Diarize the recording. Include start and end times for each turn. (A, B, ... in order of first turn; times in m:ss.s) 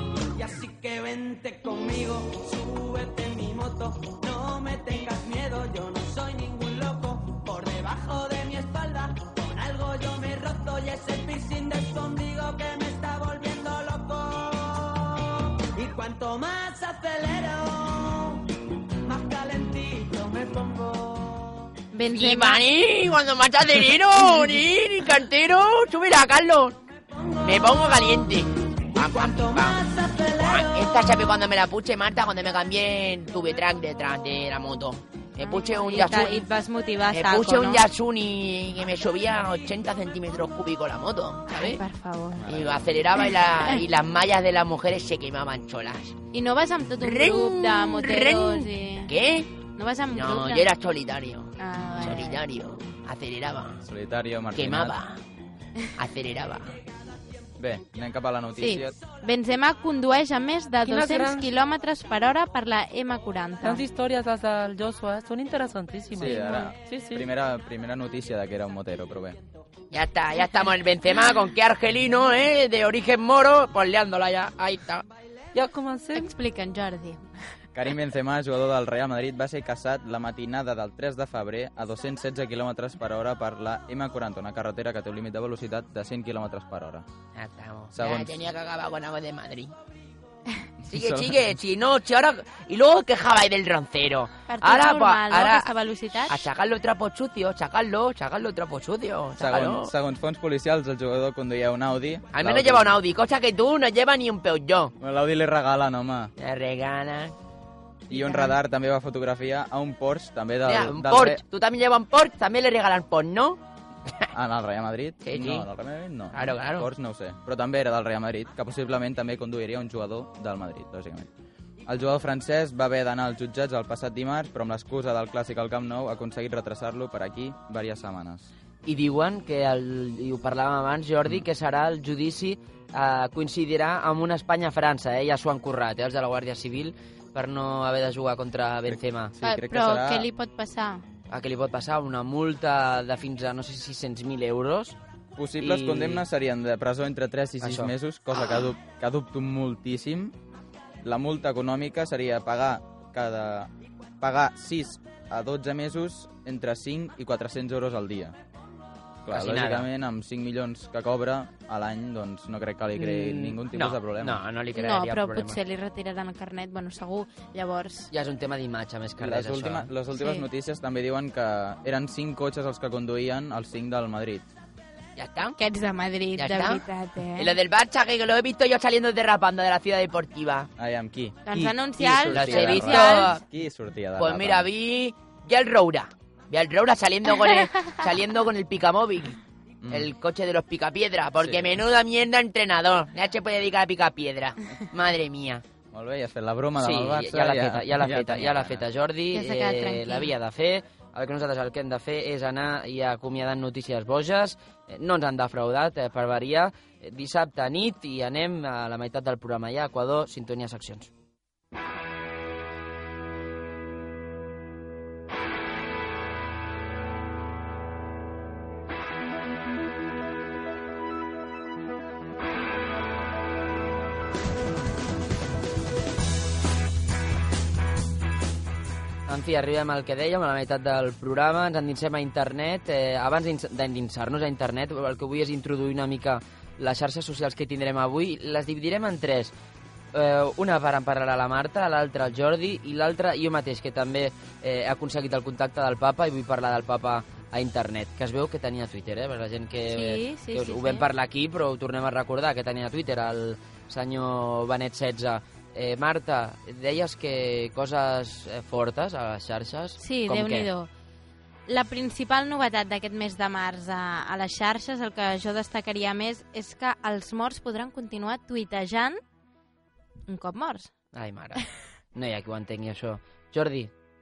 0:00.3-0:21.7 A
0:21.9-0:22.6 B
0:22.1-0:26.8 C
0:27.2-0:28.0 A
0:27.4-0:36.5 C
0:28.9-0:31.2 A
0:35.4-0:37.8 B
0:37.1-0:41.8 C
0:41.5-0:42.5 B
0:42.4-0:42.9 D
0:42.5-0:46.2 C
0:43.2-0:43.8 B
0:46.3-0:49.1 B
0:47.0-0:49.6 C
0:49.8-0:50.7 B
0:50.1-0:53.8 C
0:51.6-0:52.4 B
0:53.8-0:55.0 D
0:54.5-0:55.2 C
0:56.0-0:56.8 C
0:57.6-0:59.0 D
0:58.6-1:03.8 B
1:00.8-1:01.5 E
1:03.6-1:07.3 E
1:06.1-1:09.4 D
1:06.3-1:06.7 B
1:09.9-1:15.0 C
1:15.5-1:16.3 E
1:16.1-1:17.3 B
1:17.8-1:27.1 D
1:27.4-1:29.7 C
1:27.9-1:28.5 D
1:30.8-1:31.5 D
1:30.9-1:35.7 C
1:34.5-1:36.4 B
1:36.3-1:39.9 C
1:39.4-1:43.0 D
1:42.3-1:44.9 C
1:45.0-1:46.3 D
1:46.4-1:47.3 C
1:48.1-1:51.4 D
1:48.1-1:48.5 B
1:50.7-1:53.6 C
1:54.3-2:01.3 D
1:55.2-1:55.7 C
1:56.3-1:56.9 C
2:01.9-2:08.5 D
2:08.8-2:19.3 F
2:18.9-2:20.3 D
2:19.4-2:21.0 B
2:21.3-2:25.0 F
2:25.4-2:30.4 D
2:25.6-2:26.3 F
2:27.6-2:27.9 F
2:31.0-2:38.4 D
2:39.2-2:44.4 D
2:39.3-2:39.9 F
2:43.3-2:45.6 F
2:44.7-2:48.1 B
2:48.1-2:49.9 F
2:49.2-2:54.5 D
2:50.1-2:50.4 B
2:55.2-2:55.6 C
2:55.6-2:57.5 B
2:56.4-2:56.8 C
2:57.4-3:00.7 C
3:00.8-3:04.7 D
3:01.5-3:03.3 B
3:02.3-3:03.4 C
3:04.2-3:09.4 C
3:09.8-3:10.1 D
3:09.9-3:15.6 C
3:11.4-3:11.8 D
3:15.9-3:18.9 D
3:16.8-3:31.1 F
3:19.3-3:20.3 B
3:49.3-3:59.5 F
4:00.1-4:20.7 F
4:09.9-4:11.1 B
4:20.0-4:20.9 B
4:21.7-4:29.2 B
4:30.3-4:30.9 B
4:31.1-4:31.6 F
4:32.1-4:33.9 F